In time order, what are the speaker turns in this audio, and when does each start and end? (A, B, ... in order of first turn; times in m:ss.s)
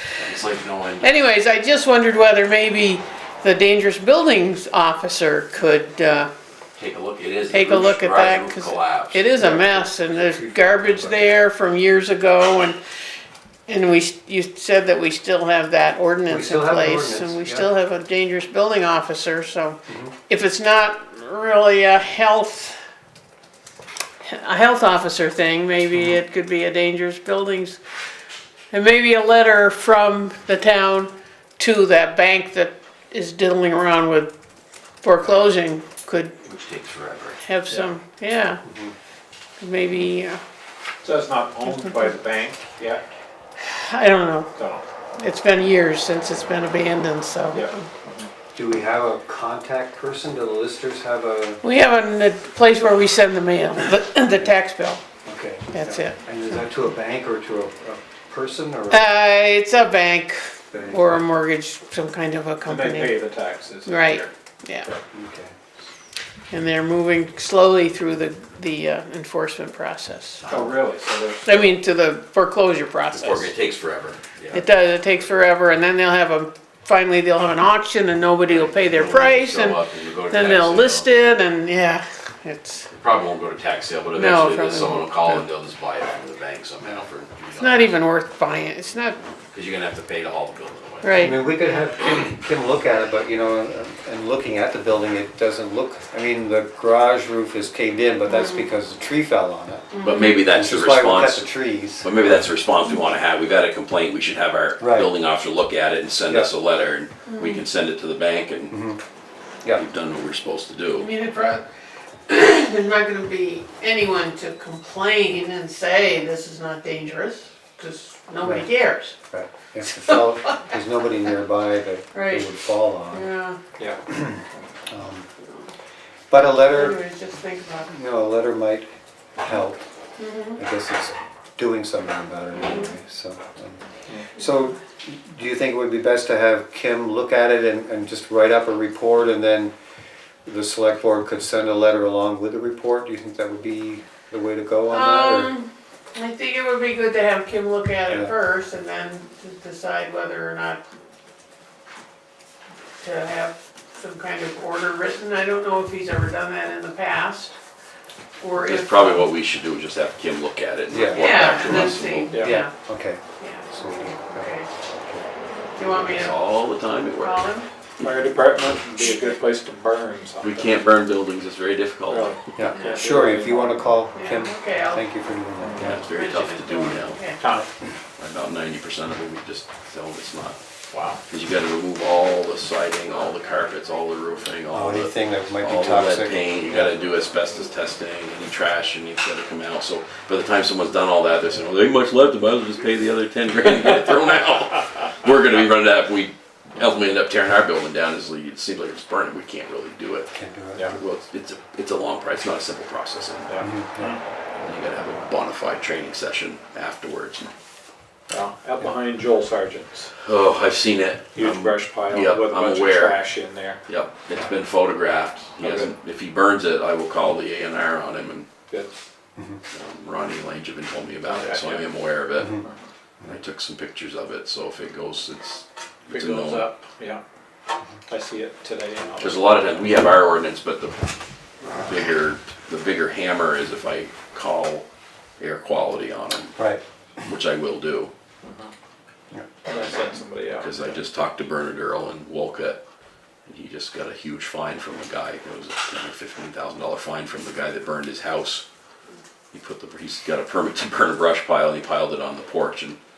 0:00.1-0:01.2 A
0:01.0-0:06.3 B
0:06.8-0:09.2 A
0:07.5-0:12.8 B
0:09.4-0:11.4 C
0:13.7-0:22.8 B
0:16.3-0:17.7 C
0:19.9-0:20.1 C
0:24.2-0:27.8 B
0:28.7-0:34.3 B
0:35.0-0:36.4 B
0:36.4-0:37.4 A
0:37.4-0:38.6 B
0:38.6-0:38.9 C
0:39.6-0:40.4 B
0:41.0-0:43.0 D
0:43.6-0:44.5 B
0:44.6-0:44.8 D
0:45.2-0:47.8 B
0:47.5-0:48.3 D
0:48.6-0:51.6 C
0:51.6-0:55.0 B
0:55.2-0:59.1 C
0:55.7-0:56.2 B
0:58.9-1:03.2 B
1:00.7-1:01.2 C
1:02.7-1:04.3 D
1:03.8-1:04.9 B
1:05.1-1:05.6 C
1:06.5-1:10.4 B
1:10.4-1:10.7 A
1:10.5-1:11.8 D
1:11.4-1:13.5 B
1:13.2-1:14.6 A
1:14.5-1:22.9 B
1:18.5-1:21.1 A
1:22.9-1:27.9 A
1:24.1-1:25.4 B
1:27.6-1:29.2 B
1:29.5-1:31.1 A
1:31.0-1:31.4 B
1:31.2-1:39.9 C
1:38.3-1:38.7 B
1:39.9-1:40.5 B
1:40.0-1:48.8 A
1:40.4-1:42.3 C
1:44.8-1:45.1 C
1:47.3-1:47.6 B
1:48.7-1:49.0 C
1:49.8-1:51.1 A
1:51.0-1:51.6 B
1:52.3-1:59.2 B
1:58.4-1:58.7 C
1:59.3-2:03.3 C
2:02.1-2:02.6 B
2:03.1-2:03.6 B
2:04.1-2:05.3 C
2:05.4-2:05.7 B
2:06.3-2:07.0 C
2:06.7-2:07.9 B
2:07.9-2:09.8 C
2:10.2-2:10.6 B
2:10.6-2:13.8 C
2:12.6-2:12.9 B
2:14.3-2:19.7 C
2:20.5-2:25.5 C
2:24.9-2:30.8 B
2:28.1-2:28.3 C
2:33.0-2:37.5 B
2:38.4-2:39.3 B
2:38.7-2:42.4 A
2:40.9-2:45.2 C
2:41.1-2:42.7 B
2:43.4-2:44.7 B
2:45.8-2:46.4 B
2:45.8-2:47.5 A
2:47.2-2:47.7 B
2:48.0-2:50.7 D
2:49.0-2:49.3 B
2:50.4-2:52.3 A
2:52.1-2:54.0 D
2:52.6-2:56.1 C
2:52.7-2:53.0 B
2:54.1-2:55.1 B
2:55.6-2:55.9 D
2:55.8-2:57.2 A
2:55.8-2:57.4 B
2:57.4-2:57.6 D
2:57.5-2:57.9 C
2:58.2-3:00.6 A
3:00.9-3:01.2 D
3:01.3-3:20.3 A
3:04.7-3:06.9 C
3:20.3-3:20.9 C
3:20.9-3:23.6 A
3:23.5-3:24.2 D
3:23.6-3:24.2 C
3:24.6-3:27.5 A
3:28.3-3:30.1 D
3:30.2-3:33.2 A
3:31.3-3:33.8 D
3:33.8-3:38.5 A
3:35.5-3:35.9 D
3:39.7-3:42.6 A
3:41.2-3:41.9 D
3:43.3-3:46.7 A
3:46.1-3:47.2 D
3:48.1-3:49.8 D
3:49.2-3:51.0 A
3:51.7-3:54.8 A
3:55.4-3:56.6 A
3:56.6-3:56.8 C
3:57.2-3:58.1 A
3:58.4-3:58.7 D
3:59.6-4:01.0 D
4:00.5-4:02.8 A
4:03.5-4:08.6 A
4:09.5-4:13.0 A